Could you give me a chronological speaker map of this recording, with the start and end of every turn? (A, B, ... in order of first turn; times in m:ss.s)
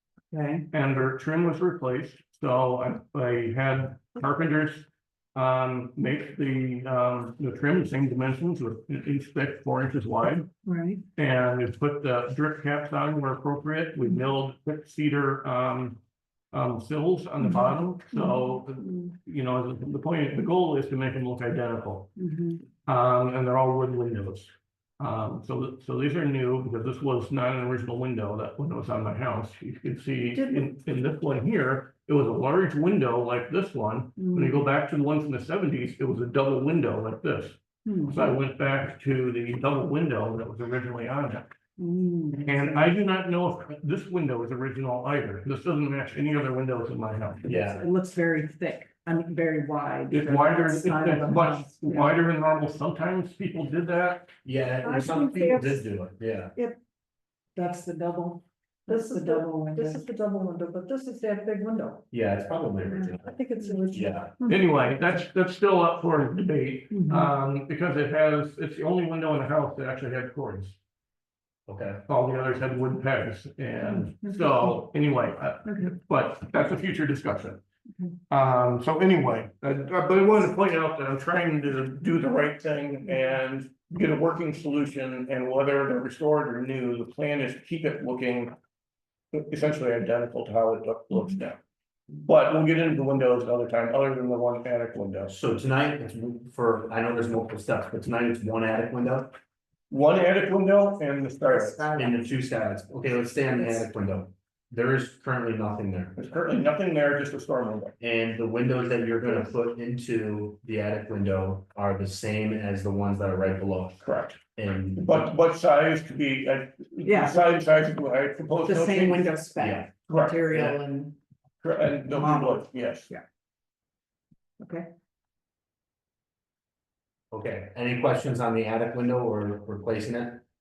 0:00.3-0:00.7 A
0:00.7-0:10.5 B
0:10.6-0:11.0 A
0:11.2-0:16.0 B
0:16.5-0:22.1 B
0:17.4-0:19.0 A
0:22.2-0:22.6 A
0:22.9-0:41.5 B
0:34.2-0:34.6 A
0:37.8-0:38.3 A
0:41.8-0:42.9 A
0:42.4-0:47.4 B
0:47.4-0:52.1 A
0:47.4-0:47.8 C
0:50.1-0:54.3 B
0:54.4-0:56.5 C
0:54.8-0:55.8 D
0:57.6-1:00.0 A
0:58.9-1:02.0 D
1:02.1-1:03.3 C
1:03.3-1:04.1 D
1:03.6-1:04.6 A
1:03.9-1:04.3 C
1:04.5-1:10.8 B
1:06.9-1:07.3 A
1:11.7-1:12.0 C
1:12.1-1:17.6 B
1:13.9-1:14.6 A
1:15.7-1:15.9 A
1:18.3-1:28.5 B
1:29.3-1:31.6 B
1:32.2-1:35.3 B
1:35.3-1:39.4 C
1:39.9-1:41.9 B
1:41.7-1:42.1 A
1:41.9-1:46.2 C
1:46.2-1:47.9 B
1:48.0-1:54.0 C
1:54.0-1:54.4 B
1:54.6-1:55.3 C
1:55.0-1:59.4 B
1:57.0-1:57.5 A
1:58.6-2:01.2 A
1:59.6-1:59.9 C
2:00.1-2:00.4 B
2:00.5-2:00.8 C
2:01.6-2:03.1 B
2:02.1-2:02.5 A
2:04.6-2:04.9 A
2:07.3-2:10.4 C